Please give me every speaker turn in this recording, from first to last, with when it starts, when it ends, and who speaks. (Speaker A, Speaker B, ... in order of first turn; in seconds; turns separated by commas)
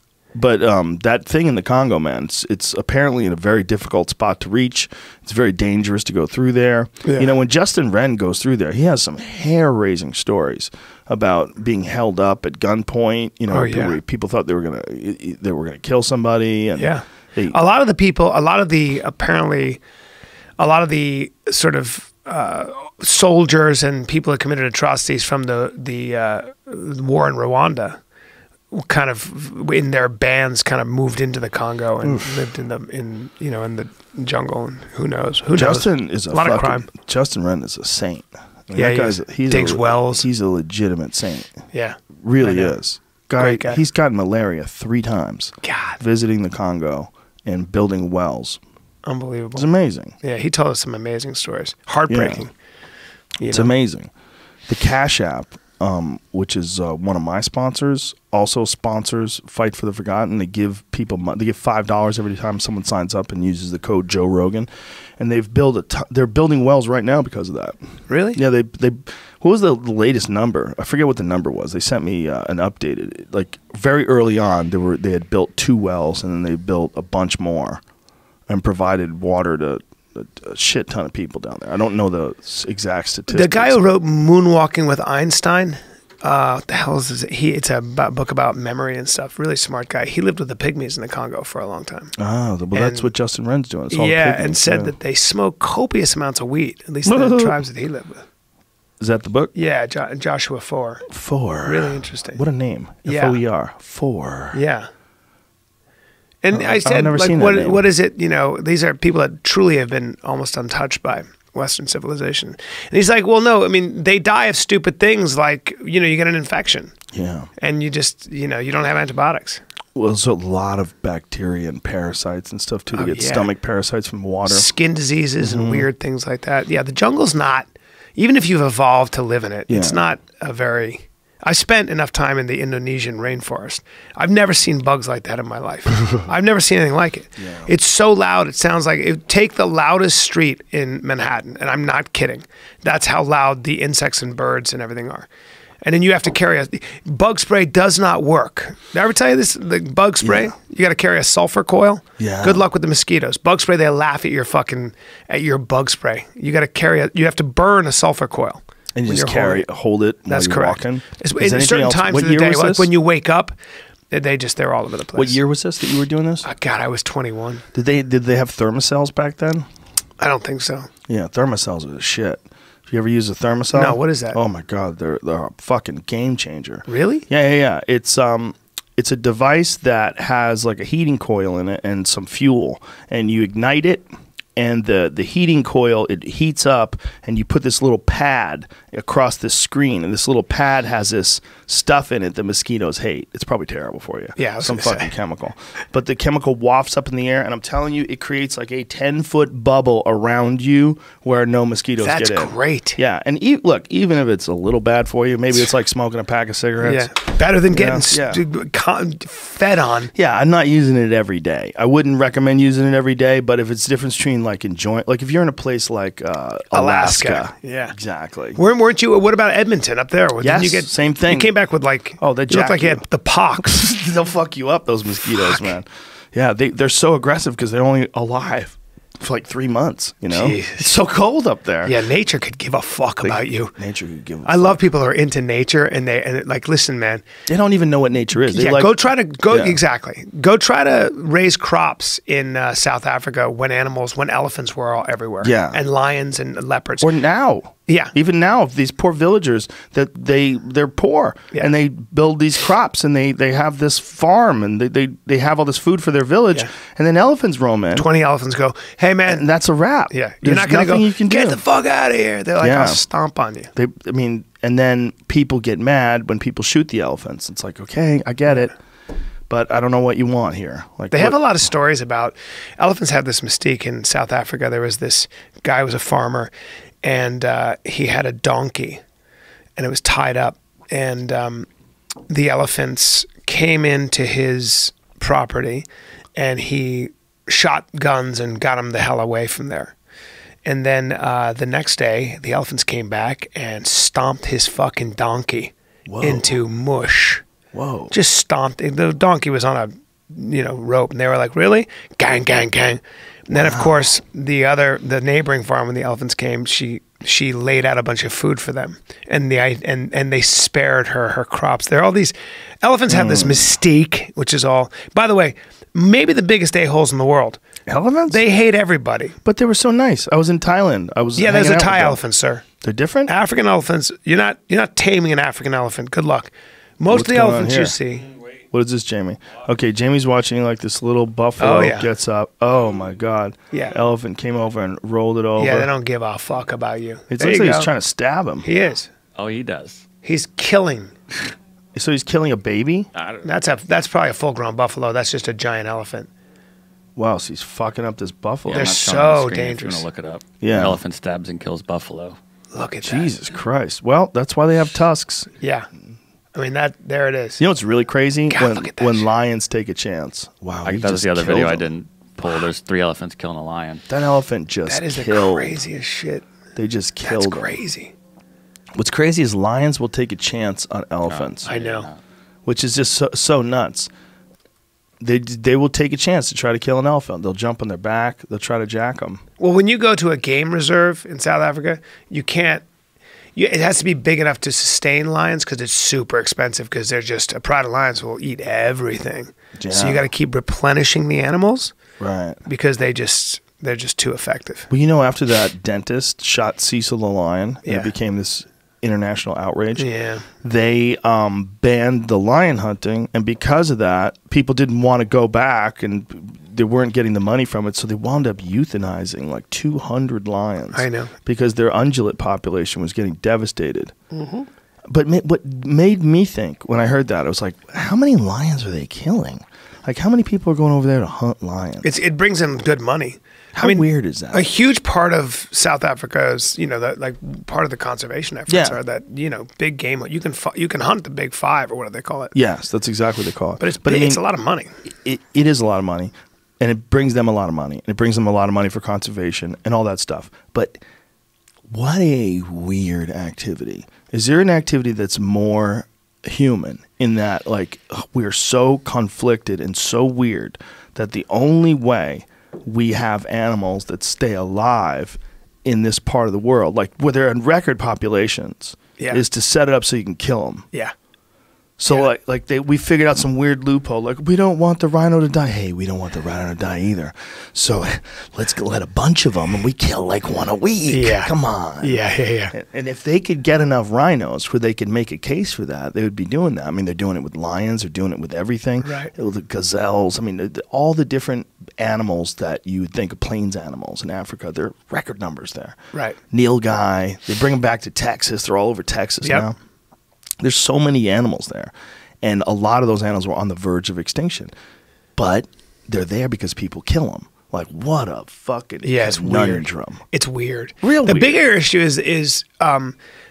Speaker A: 0.3-17.6, Speaker B: 7.0-7.3, Speaker B: 13.5-14.0, Speaker B: 16.8-19.8, Speaker B: 20.6-28.0, Speaker B: 28.7-36.9, Speaker A: 32.0-32.4, Speaker A: 35.5-41.5, Speaker B: 38.7-40.3, Speaker B: 41.7-42.8, Speaker A: 42.2-48.6, Speaker B: 43.4-43.8, Speaker B: 45.6-46.0, Speaker B: 49.0-49.7, Speaker A: 49.5-50.1, Speaker B: 50.2-52.5, Speaker A: 52.1-52.5, Speaker B: 53.4-53.7, Speaker A: 53.5-54.1, Speaker A: 54.7-67.8, Speaker B: 68.1-68.4, Speaker A: 68.3-77.8, Speaker A: 78.5-83.8, Speaker B: 83.3-92.1, Speaker A: 92.2-95.0, Speaker B: 92.7-93.1, Speaker B: 93.9-98.2, Speaker A: 97.0-97.5, Speaker A: 99.0-99.5, Speaker B: 99.5-101.0, Speaker A: 101.1-104.6, Speaker B: 101.6-102.4, Speaker B: 103.0-103.4, Speaker B: 104.5-104.9, Speaker B: 106.4-116.9, Speaker A: 106.5-107.8, Speaker A: 117.1-117.5, Speaker B: 117.6-119.6, Speaker A: 119.9-124.7, Speaker B: 122.9-123.5, Speaker B: 124.5-145.3, Speaker A: 125.4-125.9, Speaker A: 129.7-130.0, Speaker A: 137.4-137.7, Speaker B: 145.8-159.6, Speaker A: 150.2-150.5, Speaker A: 152.2-152.7, Speaker A: 158.9-162.9, Speaker B: 160.3-163.5, Speaker B: 164.1-165.4, Speaker A: 165.1-166.5, Speaker B: 166.4-167.6, Speaker A: 167.7-169.7, Speaker B: 170.2-170.9, Speaker A: 171.1-207.1, Speaker B: 173.7-174.4, Speaker B: 176.9-177.2, Speaker B: 194.4-195.1, Speaker B: 202.0-203.0, Speaker B: 206.8-210.1, Speaker A: 207.7-208.4, Speaker A: 210.1-218.6, Speaker B: 216.7-217.9, Speaker B: 218.5-223.9, Speaker A: 220.4-221.5, Speaker A: 222.2-223.0, Speaker A: 223.6-232.0, Speaker B: 225.2-225.7, Speaker B: 230.3-230.9, Speaker B: 231.8-233.7, Speaker A: 233.2-234.8, Speaker B: 234.4-237.2, Speaker A: 237.5-239.8, Speaker B: 238.4-247.1, Speaker A: 245.4-245.8, Speaker A: 247.0-258.1, Speaker B: 247.9-248.1, Speaker B: 257.9-259.4, Speaker A: 259.2-261.6, Speaker B: 260.1-263.7, Speaker A: 262.6-263.1, Speaker A: 263.8-268.7, Speaker A: 269.5-271.4, Speaker B: 271.1-276.5, Speaker B: 277.0-279.0, Speaker B: 279.8-281.7, Speaker B: 282.3-289.9, Speaker B: 290.6-297.4, Speaker A: 296.1-296.5, Speaker A: 297.7-298.1, Speaker B: 298.1-317.6, Speaker A: 303.5-304.1, Speaker A: 313.1-313.7, Speaker A: 317.9-318.4, Speaker B: 318.3-319.4, Speaker A: 319.4-322.2, Speaker B: 321.4-322.6, Speaker A: 322.8-323.3, Speaker B: 323.3-328.4, Speaker A: 327.1-327.9, Speaker A: 328.7-335.9, Speaker B: 331.6-332.1, Speaker B: 335.6-337.9, Speaker A: 337.3-338.7, Speaker B: 338.6-339.1, Speaker C: 339.4-340.0, Speaker B: 340.2-341.1, Speaker A: 341.9-343.1, Speaker C: 343.1-343.5, Speaker B: 343.4-346.3, Speaker A: 347.1-348.9, Speaker C: 348.6-352.4, Speaker B: 348.7-350.1, Speaker A: 350.6-351.0, Speaker B: 352.7-353.4, Speaker A: 353.0-355.5, Speaker B: 355.6-355.9, Speaker B: 356.5-357.6, Speaker A: 357.6-361.9, Speaker B: 358.5-359.3, Speaker C: 360.8-364.0, Speaker A: 364.1-365.8, Speaker B: 364.9-366.4, Speaker A: 366.8-367.8, Speaker B: 367.2-368.1, Speaker A: 368.9-371.7, Speaker C: 371.3-372.2, Speaker B: 371.6-372.1, Speaker A: 372.6-374.1, Speaker A: 375.2-379.4, Speaker B: 379.6-382.8, Speaker B: 383.5-391.9, Speaker A: 389.8-390.3, Speaker A: 392.2-392.6, Speaker B: 392.6-394.9, Speaker A: 394.9-400.1, Speaker B: 397.8-398.1, Speaker B: 400.0-400.5, Speaker A: 400.6-414.1, Speaker B: 410.9-411.3, Speaker B: 414.3-414.7, Speaker A: 415.1-422.1, Speaker B: 422.0-432.5, Speaker A: 423.7-424.7, Speaker A: 428.7-429.0, Speaker A: 432.5-434.4, Speaker B: 433.8-434.9, Speaker A: 435.2-441.0, Speaker A: 441.9-460.9, Speaker B: 459.2-459.4, Speaker A: 462.0-485.9, Speaker B: 471.1-472.7, Speaker B: 479.0-479.3, Speaker B: 486.1-486.4, Speaker A: 486.5-489.8, Speaker B: 489.4-489.7, Speaker A: 490.6-494.7, Speaker A: 495.4-500.2, Speaker B: 499.0-503.2, Speaker A: 501.0-501.6